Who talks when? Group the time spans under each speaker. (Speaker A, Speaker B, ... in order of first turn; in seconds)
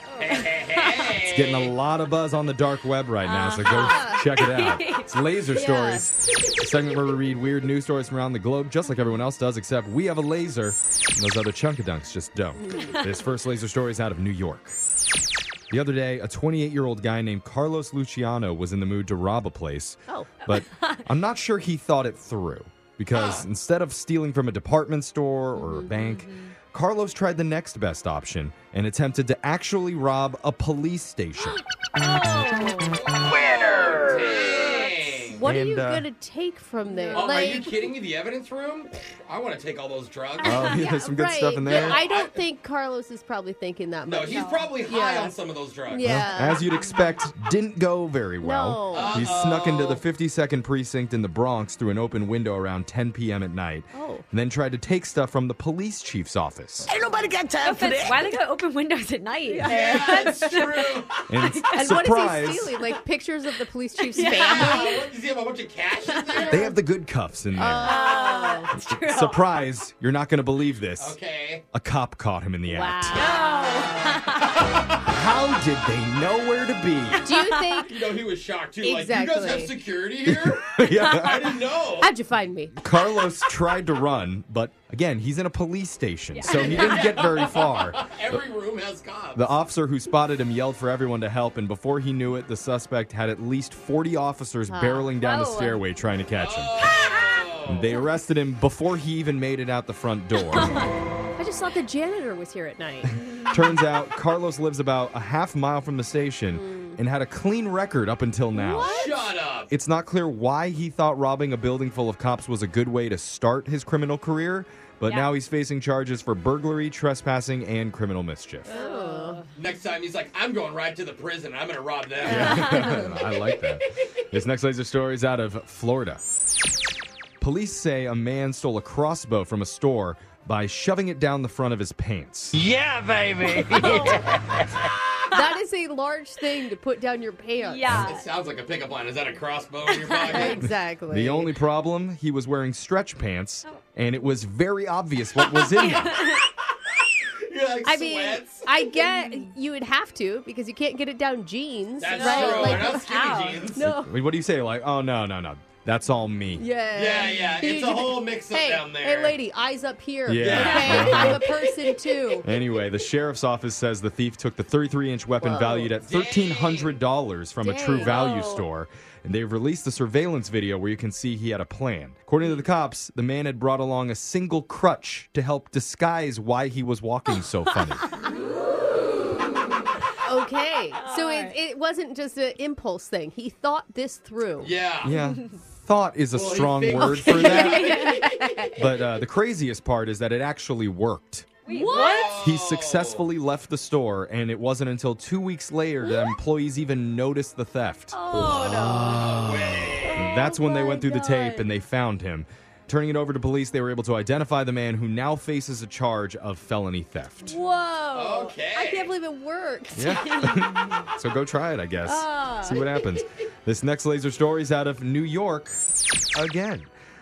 Speaker A: 0.2-1.2, 3.2-5.0, 20.4-21.1, 25.6-26.5, 32.2-33.0, 34.4-34.9, 36.9-37.5, 40.5-40.8, 44.3-44.7, 57.6-61.7, 64.1-65.0, 66.0-66.6, 67.8-69.5, 73.1-74.6, 77.3-77.8, 86.3-87.1, 95.2-95.8, 97.1-97.4, 100.5-100.9, 108.5-109.1, 115.0-115.3, 118.7-119.5, 122.3-123.1, 133.5-134.3, 137.6-138.3, 139.8-140.6, 145.6-146.4, 149.0-149.5, 152.1-153.7, 160.6-161.3, 168.0-168.6, 180.9-181.6, 187.1-188.3, 191.6-192.5, 198.1-199.5, 200.0-201.7
Speaker B: 0.2-1.7, 23.1-23.4, 33.1-35.5, 37.1-40.7, 41.6-42.4, 44.0-46.2, 48.9-50.0, 59.6-61.2, 64.1-66.7, 71.0-71.6, 77.8-82.1, 86.5-89.5, 96.3-98.0, 108.8-109.7, 119.5-122.9, 137.9-140.7, 147.2-148.7, 152.0-153.8, 156.9-159.4, 160.4-161.6, 166.0-167.0, 184.6-185.2, 186.3-188.0, 191.7-193.3, 199.1-200.3, 208.1-209.1
Speaker C: 1.2-14.8, 15.7-31.6, 35.4-36.1, 40.4-42.0, 46.0-56.9, 61.3-62.7, 66.5-68.0, 68.9-71.2, 71.7-73.2, 75.0-77.2, 80.2-81.6, 82.8-88.3, 89.3-96.9, 97.7-100.8, 103.0-109.0, 109.7-118.7, 122.2-126.2, 127.4-132.6, 140.6-146.2, 153.8-156.6, 160.2-161.5, 162.4-178.1, 185.0-188.1, 188.7-191.6, 192.4-198.2, 200.2-207.6, 209.9-215.8, 216.3-216.9
Speaker D: 3.6-4.2, 5.5-6.1, 12.5-13.1, 35.3-37.7, 40.6-45.4, 45.9-46.7, 48.4-49.3, 53.9-54.2, 59.5-60.4, 61.7-65.0, 67.5-68.7, 72.7-73.3, 77.2-78.0, 78.8-79.7, 82.0-82.8, 94.7-95.1, 101.3-103.2, 106.5-107.0, 108.6-109.1, 118.7-119.4, 133.8-134.2, 135.3-138.0, 140.3-141.5, 147.8-153.2, 153.7-154.1, 156.5-162.5, 165.4-165.9, 167.6-168.3, 180.2-184.7, 187.2-188.8, 191.7-192.4, 207.4-210.7, 212.0-212.8
Speaker E: 33.3-34.3, 56.9-58.2, 132.6-134.4